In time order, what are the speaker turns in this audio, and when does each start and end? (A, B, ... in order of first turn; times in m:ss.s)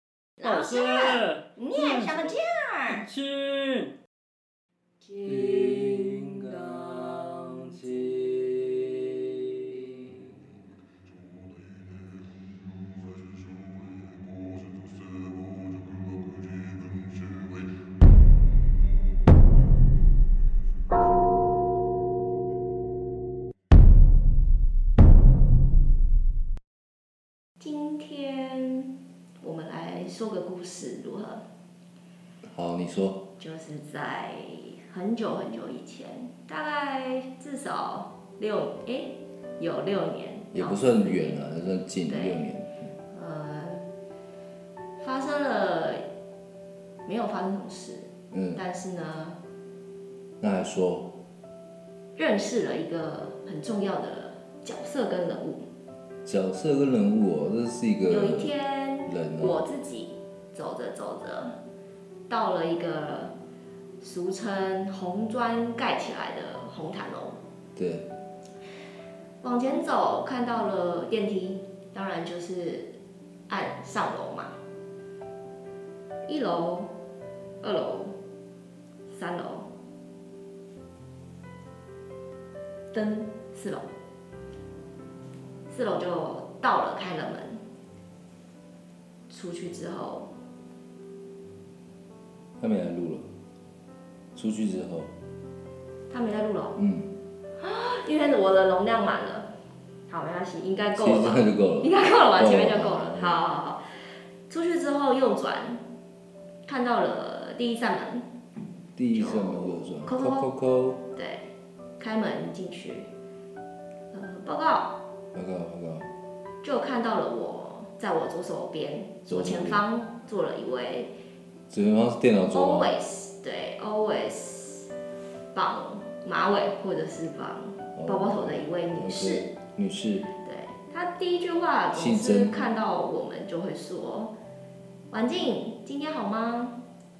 0:00.4-0:02.3 A
0:00.4-0:03.0 B
0:02.9-0:03.9 A
0:05.2-0:10.4 C
0:27.6-0:31.4 B
0:32.4-0:33.2 C
0:33.4-0:41.4 B
0:40.5-0:42.9 C
0:42.1-0:42.4 B
0:43.1-0:43.8 B
0:45.0-0:46.0 B
0:47.0-0:49.4 B
0:48.3-0:48.6 C
0:50.4-0:51.1 C
0:52.2-0:55.6 B
0:56.2-0:58.5 C
0:58.1-1:01.5 B
0:59.0-0:59.6 C
1:02.3-1:03.3 B
1:04.0-1:07.4 B
1:07.8-1:08.1 C
1:09.4-1:12.9 B
1:13.5-1:14.5 B
1:16.3-1:16.9 B
1:17.6-1:18.1 B
1:19.1-1:19.7 B
1:22.9-1:23.9 B
1:25.7-1:27.6 B
1:29.3-1:30.3 B
1:32.6-1:33.2 C
1:34.3-1:35.1 C
1:36.1-1:36.8 B
1:36.8-1:37.1 C
1:37.6-1:39.5 B
1:40.1-1:43.8 B
1:41.0-1:43.4 C
1:44.5-1:45.8 B
1:46.7-1:48.2 B
1:49.0-1:51.0 C
1:49.1-1:50.5 B
1:51.2-1:51.4 B
1:52.0-1:53.1 B
1:54.1-1:54.9 B
1:55.3-1:56.1 C
1:56.6-2:01.1 B
1:59.3-1:59.8 C
2:01.7-2:02.9 C
2:02.5-2:04.9 B
2:05.5-2:09.5 B
2:08.0-2:10.3 C
2:10.4-2:14.3 B
2:11.9-2:12.5 C
2:15.1-2:16.8 B